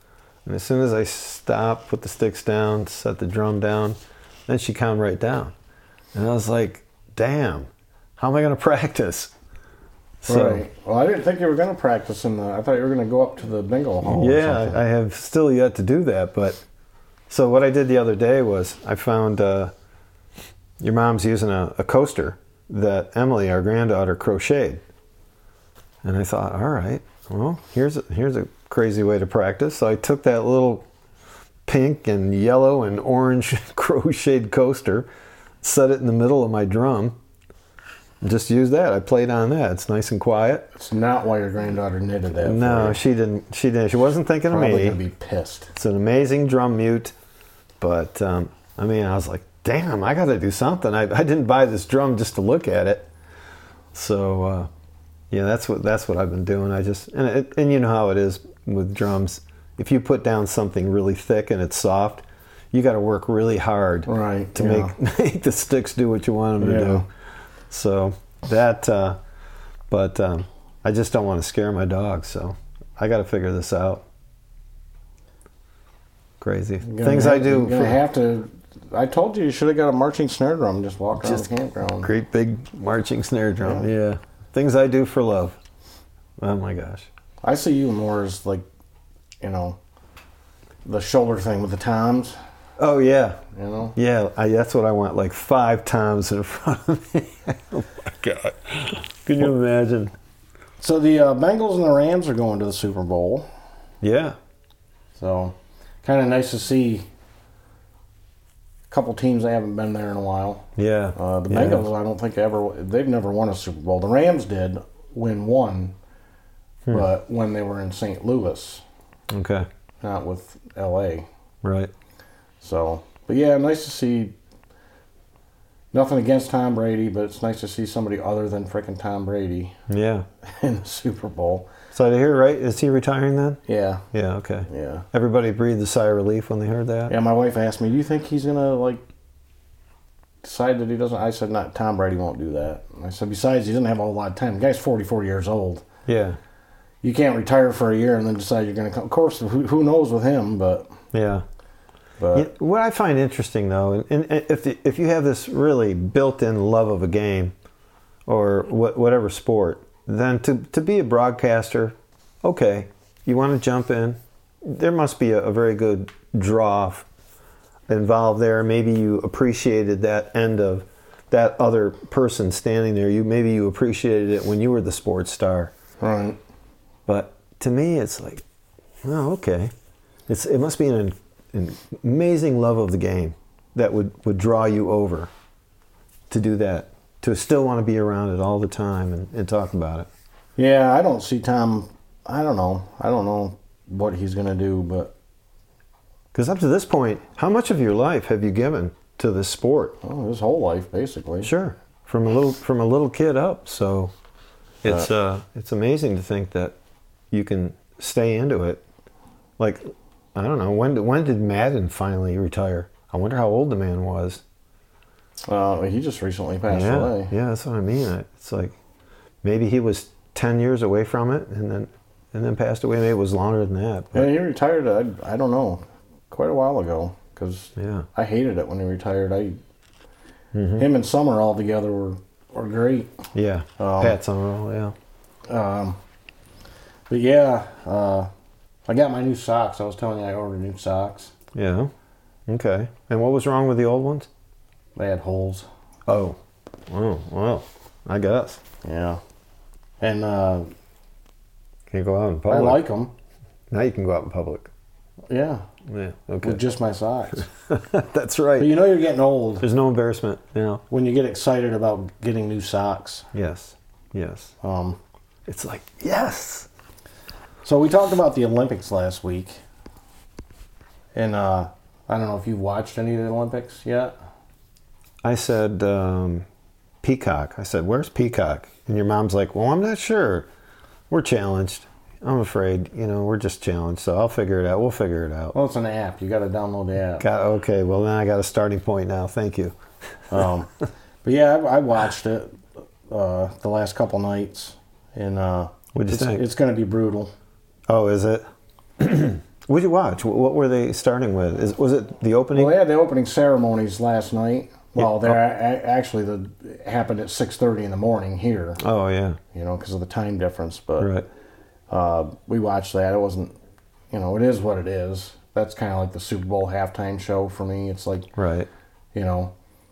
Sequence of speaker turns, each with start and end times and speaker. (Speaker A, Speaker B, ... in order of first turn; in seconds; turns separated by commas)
Speaker A: 0.5-5.5, Speaker A: 6.1-9.3, Speaker A: 10.2-10.6, Speaker B: 10.2-14.8, Speaker A: 14.0-16.6, Speaker A: 17.3-19.7, Speaker A: 20.8-24.8, Speaker A: 26.0-30.8, Speaker A: 31.6-35.1, Speaker A: 35.6-37.2, Speaker A: 38.2-40.7, Speaker B: 40.7-43.0, Speaker A: 42.3-45.0, Speaker B: 44.5-45.7, Speaker A: 45.7-47.1, Speaker A: 47.8-53.1, Speaker A: 53.9-54.7, Speaker A: 55.3-67.1, Speaker B: 64.1-64.9, Speaker B: 66.6-67.0, Speaker A: 67.7-69.2, Speaker A: 69.9-74.0, Speaker A: 76.4-78.0, Speaker B: 76.8-82.1, Speaker A: 82.0-85.6, Speaker B: 83.6-83.9, Speaker A: 86.4-87.1, Speaker B: 87.4-88.6, Speaker B: 89.4-89.8, Speaker B: 90.8-92.3, Speaker A: 92.8-93.4, Speaker B: 93.5-94.0, Speaker A: 94.0-100.1, Speaker B: 100.8-103.5, Speaker A: 104.0-104.3, Speaker B: 105.2-107.0, Speaker B: 108.9-116.0, Speaker A: 110.8-111.8, Speaker B: 116.9-118.8, Speaker A: 119.3-119.7, Speaker B: 120.0-121.3, Speaker A: 121.6-121.9, Speaker B: 122.6-124.3, Speaker B: 125.9-129.8, Speaker A: 129.9-130.2, Speaker B: 130.4-131.7, Speaker A: 131.9-133.6, Speaker B: 133.7-134.0, Speaker A: 134.1-137.1, Speaker B: 134.7-135.1, Speaker B: 137.1-139.0, Speaker B: 140.4-145.8, Speaker A: 146.1-146.4, Speaker B: 147.0-150.9, Speaker A: 151.1-151.4, Speaker B: 152.2-152.5, Speaker A: 152.3-157.5, Speaker A: 158.3-167.1, Speaker A: 167.9-175.7, Speaker B: 176.0-176.4, Speaker A: 177.1-178.4, Speaker A: 179.0-179.7, Speaker A: 180.3-185.3, Speaker A: 186.3-190.1, Speaker B: 190.6-195.1, Speaker A: 196.3-200.0, Speaker B: 200.0-201.5, Speaker A: 201.4-204.1, Speaker A: 204.8-206.7, Speaker A: 207.3-208.8, Speaker A: 210.3-214.4, Speaker B: 215.5-217.3, Speaker A: 216.7-218.7, Speaker A: 219.4-224.3, Speaker B: 224.1-229.6, Speaker A: 227.8-228.1, Speaker A: 230.5-230.8, Speaker B: 230.8-233.1, Speaker A: 233.3-234.9, Speaker B: 233.8-234.2, Speaker B: 235.5-236.0, Speaker B: 237.1-238.3, Speaker B: 238.9-241.3, Speaker A: 241.5-241.9, Speaker A: 242.5-244.3, Speaker B: 244.9-245.7, Speaker A: 246.1-248.6, Speaker B: 248.8-249.2, Speaker B: 250.0-250.7, Speaker A: 251.9-252.8, Speaker B: 252.5-253.1, Speaker A: 253.7-254.7, Speaker B: 255.3-255.6, Speaker A: 255.9-256.6, Speaker B: 256.4-257.5, Speaker A: 257.5-258.8, Speaker B: 258.6-259.6, Speaker A: 259.6-260.8, Speaker B: 260.9-263.3, Speaker A: 263.3-264.5, Speaker B: 264.6-265.0, Speaker A: 265.5-266.7, Speaker B: 267.6-269.6, Speaker B: 271.1-274.1, Speaker A: 275.2-276.4, Speaker A: 277.0-280.5, Speaker A: 281.1-285.5, Speaker B: 285.5-287.2, Speaker A: 287.2-289.8, Speaker B: 290.3-290.7, Speaker B: 291.2-297.3, Speaker A: 295.9-296.4, Speaker A: 297.9-298.4, Speaker A: 299.0-302.8, Speaker B: 302.5-308.8, Speaker A: 305.0-305.4, Speaker A: 308.8-309.4, Speaker B: 309.5-311.1, Speaker A: 311.0-311.2, Speaker B: 311.9-313.5, Speaker B: 314.1-318.3, Speaker A: 318.4-318.7, Speaker B: 319.1-319.5